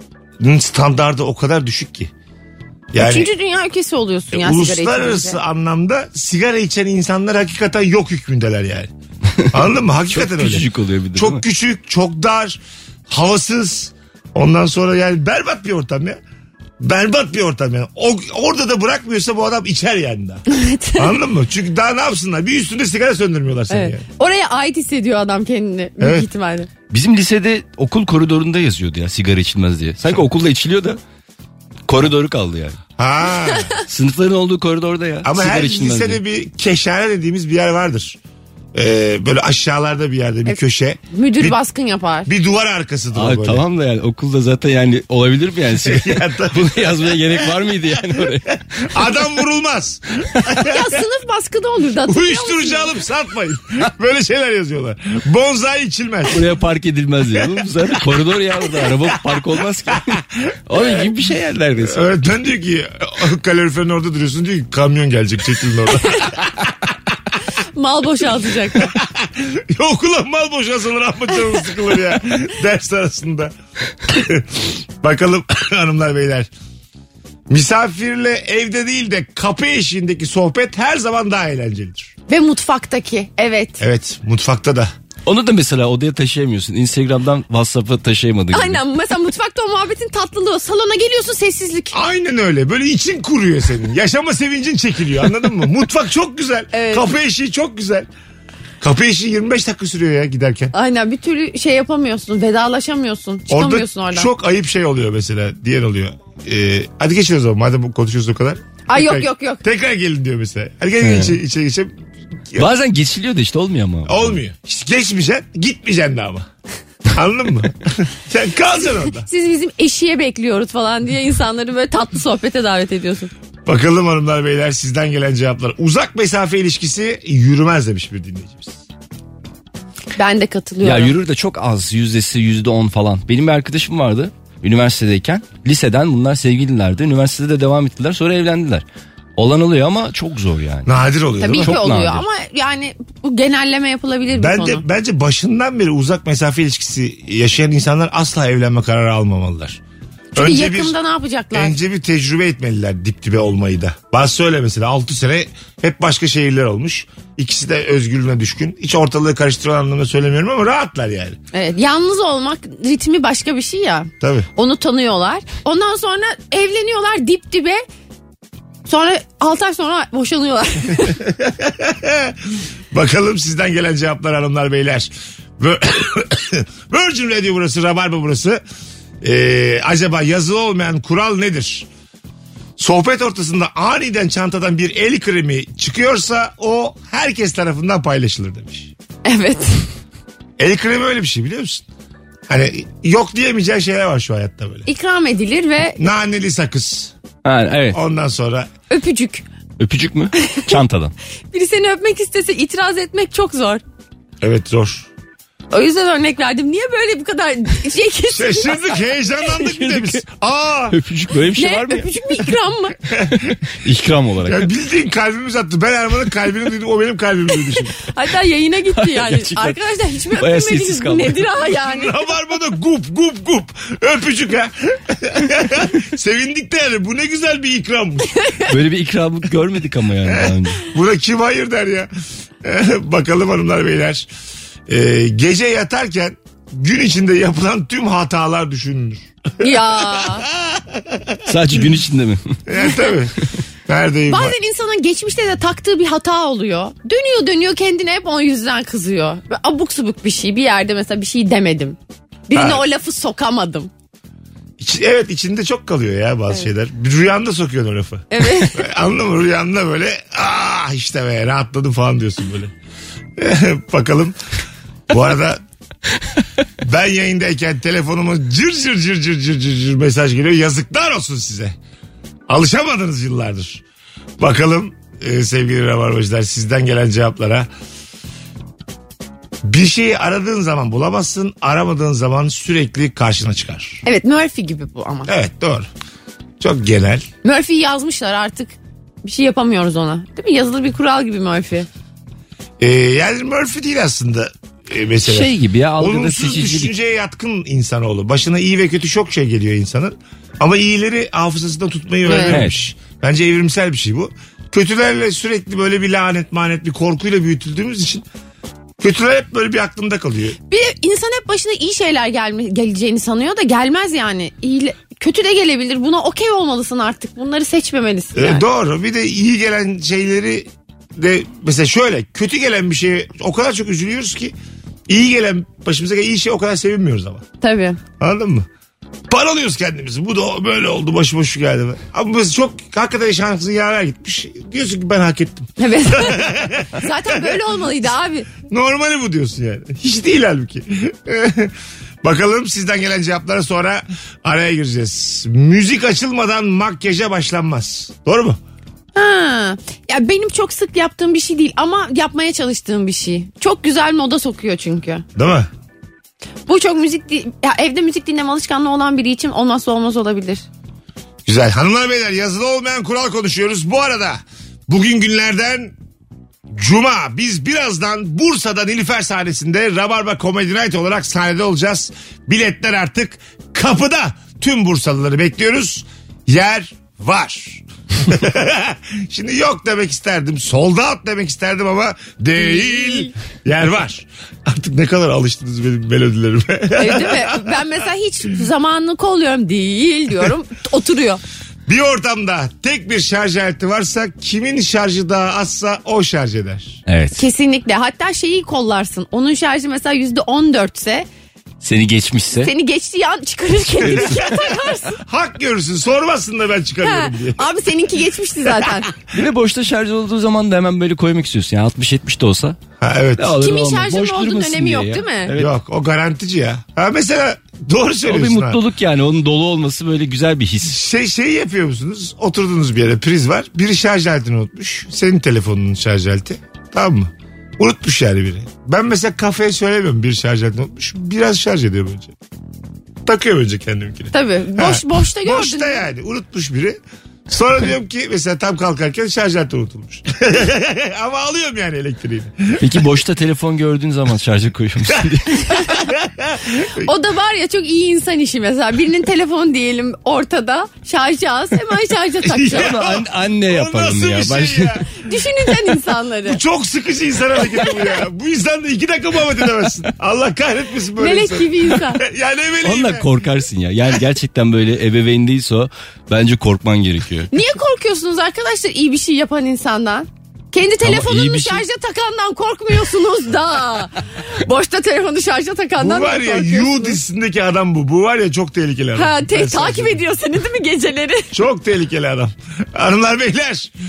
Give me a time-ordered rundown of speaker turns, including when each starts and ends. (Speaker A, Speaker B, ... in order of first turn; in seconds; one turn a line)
Speaker A: 0.4-2.1
Speaker A: 2.9-3.3
Speaker B: 3.0-5.4
Speaker A: 4.3-8.9
Speaker A: 9.5-16.2
Speaker C: 10.1-11.4
Speaker A: 16.8-20.4
Speaker B: 20.5-21.2
Speaker A: 20.9-24.0
Speaker B: 23.7-26.7
Speaker A: 26.0-26.3
Speaker C: 26.9-31.0
Speaker C: 31.9-32.8
Speaker A: 33.0-33.7
Speaker B: 33.5-33.8
Speaker C: 33.9-36.2
Speaker A: 35.2-38.2
Speaker A: 38.7-41.6
Speaker B: 41.1-42.3
Speaker A: 42.2-43.6
Speaker C: 43.1-48.9
Speaker A: 45.8-50.9
Speaker B: 50.6-52.9
Speaker A: 52.0-56.5
Speaker C: 56.3-62.0
Speaker A: 61.9-66.9
Speaker B: 67.7-68.9
Speaker A: 68.7-73.5
Speaker A: 74.1-76.5
Speaker A: 77.5-82.1
Speaker B: 82.3-83.8
Speaker A: 83.8-84.9
Speaker C: 85.2-88.8
Speaker B: 88.5-92.0
Speaker A: 91.9-98.1
Speaker B: 96.7-97.1
Speaker A: 98.8-100.7
Speaker B: 100.7-104.3
Speaker A: 103.5-112.7
Speaker B: 108.9-109.6
Speaker C: 111.0-111.4
Speaker C: 112.6-114.4
Speaker A: 114.0-116.5
Speaker A: 117.1-119.3
Speaker B: 119.2-123.3
Speaker A: 123.7-128.8
Speaker B: 130.2-131.1
Speaker C: 130.8-138.8
Speaker C: 139.4-141.0
Speaker A: 140.8-141.8
Speaker B: 141.4-144.8
Speaker C: 141.6-142.2
Speaker A: 144.3-149.8
Speaker A: 150.3-150.9
Speaker B: 150.3-151.7
Speaker A: 151.5-161.4
Speaker B: 161.5-167.8
Speaker A: 164.2-164.5
Speaker B: 168.8-171.2
Speaker A: 171.2-178.6
Speaker A: 179.2-181.9
Speaker A: 182.8-188.9
Speaker B: 189.2-189.8
Speaker A: 190.6-191.8
Speaker A: 192.5-194.9
Speaker B: 194.8-196.0
Speaker A: 196.0-197.1
Speaker C: 197.4-198.0
Speaker A: 197.9-198.7
Speaker B: 198.9-199.4
Speaker C: 199.8-201.1
Speaker B: 200.4-200.8
Speaker B: 201.5-203.8
Speaker A: 204.4-205.1
Speaker B: 205.7-209.0
Speaker A: 208.3-211.0
Speaker C: 209.6-210.2
Speaker C: 210.9-212.1
Speaker B: 211.6-213.0
Speaker A: 213.1-213.6
Speaker C: 213.7-214.7
Speaker A: 214.4-217.9
Speaker B: 217.9-222.2
Speaker C: 218.9-219.8
Speaker C: 220.3-221.5
Speaker A: 221.7-228.3
Speaker B: 228.3-228.7
Speaker C: 228.6-230.9
Speaker A: 230.2-232.1
Speaker A: 232.6-234.3
Speaker A: 234.9-241.4
Speaker B: 239.6-240.5
Speaker C: 241.4-242.6
Speaker A: 242.7-244.6
Speaker B: 244.3-252.0
Speaker B: 252.5-253.9
Speaker A: 252.5-252.8
Speaker A: 254.8-262.7
Speaker B: 258.3-258.9
Speaker A: 263.4-264.4
Speaker A: 265.1-265.6
Speaker A: 266.8-271.8
Speaker A: 272.5-273.8
Speaker A: 274.4-277.7
Speaker A: 279.6-284.0
Speaker B: 284.0-285.3
Speaker A: 285.3-285.9
Speaker A: 286.6-287.3
Speaker B: 287.4-291.9
Speaker A: 292.8-308.2
Speaker C: 295.2-296.9
Speaker B: 302.2-302.6
Speaker C: 302.5-302.7
Speaker A: 309.0-310.6
Speaker B: 310.7-318.6
Speaker A: 318.3-324.5
Speaker A: 325.1-327.4
Speaker B: 327.6-328.0
Speaker A: 328.2-328.7
Speaker A: 329.3-337.6
Speaker B: 335.8-338.5
Speaker A: 338.6-348.6
Speaker B: 349.1-355.2
Speaker A: 355.4-355.7
Speaker B: 356.7-360.6
Speaker A: 361.4-365.9
Speaker A: 366.8-387.8
Speaker B: 382.6-383.3
Speaker B: 386.9-391.4
Speaker A: 391.9-397.0
Speaker C: 397.1-397.4
Speaker B: 397.4-401.3
Speaker C: 401.8-402.7
Speaker B: 402.6-405.2
Speaker C: 404.0-404.5
Speaker A: 405.2-407.6
Speaker B: 407.0-409.1
Speaker C: 409.3-412.8
Speaker A: 413.0-413.6
Speaker C: 413.4-415.7
Speaker B: 413.6-415.5
Speaker A: 415.5-418.8
Speaker C: 418.2-421.0
Speaker A: 420.8-432.3
Speaker A: 433.2-443.0
Speaker B: 434.3-436.0
Speaker C: 442.8-445.9
Speaker A: 445.1-447.1
Speaker B: 446.9-452.9
Speaker A: 452.4-455.1
Speaker C: 452.7-455.1
Speaker B: 455.1-456.6
Speaker A: 456.4-463.3
Speaker B: 461.2-462.2
Speaker C: 462.8-467.5
Speaker B: 467.5-477.2
Speaker C: 471.0-471.8
Speaker A: 476.0-480.2
Speaker B: 479.1-481.5
Speaker A: 481.5-483.9